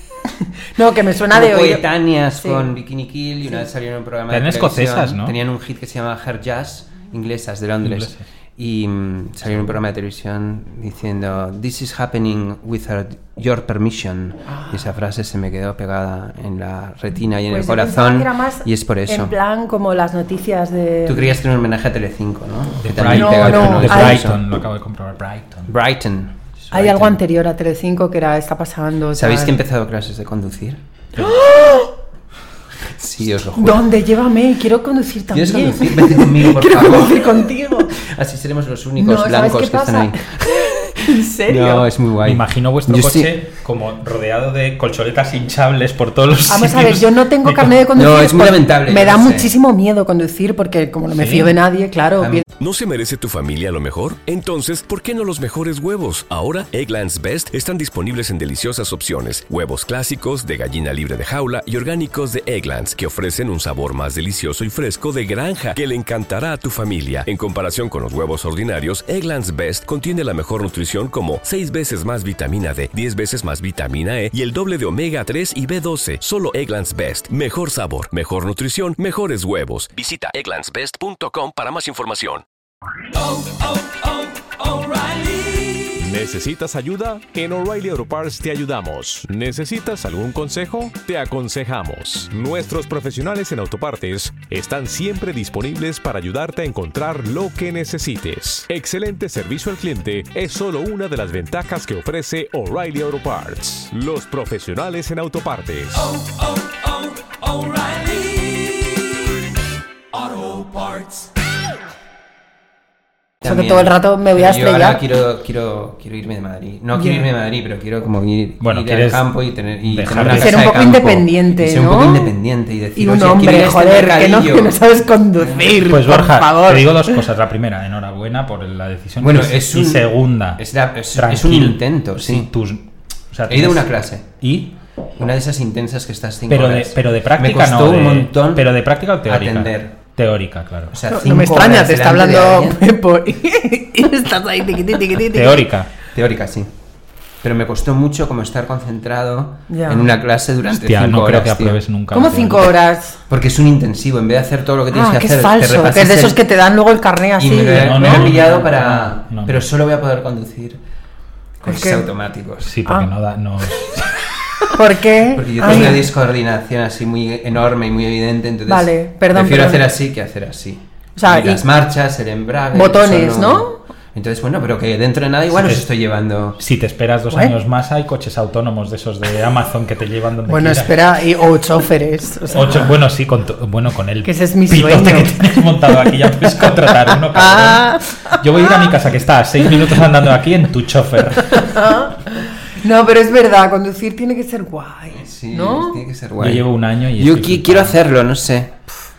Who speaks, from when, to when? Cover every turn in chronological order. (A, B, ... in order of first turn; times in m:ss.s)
0:00.3-0:02.7 A
0:01.3-0:19.4 B
0:04.3-0:05.3 C
0:07.8-0:08.2 C
0:14.5-0:14.8 A
0:17.5-0:21.4 A
0:21.1-0:24.4 B
0:22.8-0:25.7 C
0:23.1-0:24.3 A
0:25.7-0:27.2 B
0:26.7-0:29.6 A
0:29.1-0:30.8 B
0:31.2-0:31.5 C
0:31.2-0:31.9 A
0:32.8-0:33.9 B
0:33.6-0:38.0 A
0:35.3-0:43.3 B
0:39.0-0:41.9 A
0:42.2-0:47.9 C
0:46.5-0:52.4 A
0:47.9-0:49.5 B
0:51.2-0:51.6 C
0:52.2-0:52.4 B
0:52.6-1:22.4 D
1:23.4-1:24.0 E
1:24.8-1:46.1 E
1:50.4-1:50.7 E
1:53.4-2:04.8 B
1:53.4-1:55.0 A
1:56.9-1:57.3 A
1:58.6-2:00.7 C
2:00.3-2:02.3 A
2:03.0-2:07.2 A
2:05.4-2:05.8 B
2:05.9-2:10.6 C
2:09.2-2:12.5 B
2:11.1-2:14.7 C
2:13.5-2:14.4 B
2:15.2-2:20.0 B
2:16.5-2:20.9 C
2:20.9-2:22.8 B
2:21.1-2:25.7 A
2:25.3-2:25.9 C
2:26.1-2:26.7 B
2:27.4-2:31.8 B
2:29.7-2:30.1 A
2:30.7-2:32.7 C
2:32.1-2:33.2 A
2:33.3-2:36.4 B
2:34.9-2:38.3 A
2:37.4-2:40.8 B
2:37.7-2:39.7 C
2:41.6-2:42.7 B
2:41.7-2:42.1 A
2:42.6-2:44.7 C
2:44.7-2:46.0 A
2:45.3-2:56.6 B
2:48.7-2:49.8 A
2:51.2-2:51.6 A
2:52.7-2:53.8 A
2:55.5-2:55.9 C
2:56.6-3:01.1 C
3:00.5-3:02.9 A
3:02.5-3:12.0 C
3:04.2-3:08.9 A
3:09.7-3:09.9 A
3:11.4-3:16.0 A
3:15.1-3:18.8 B
3:16.4-3:18.0 C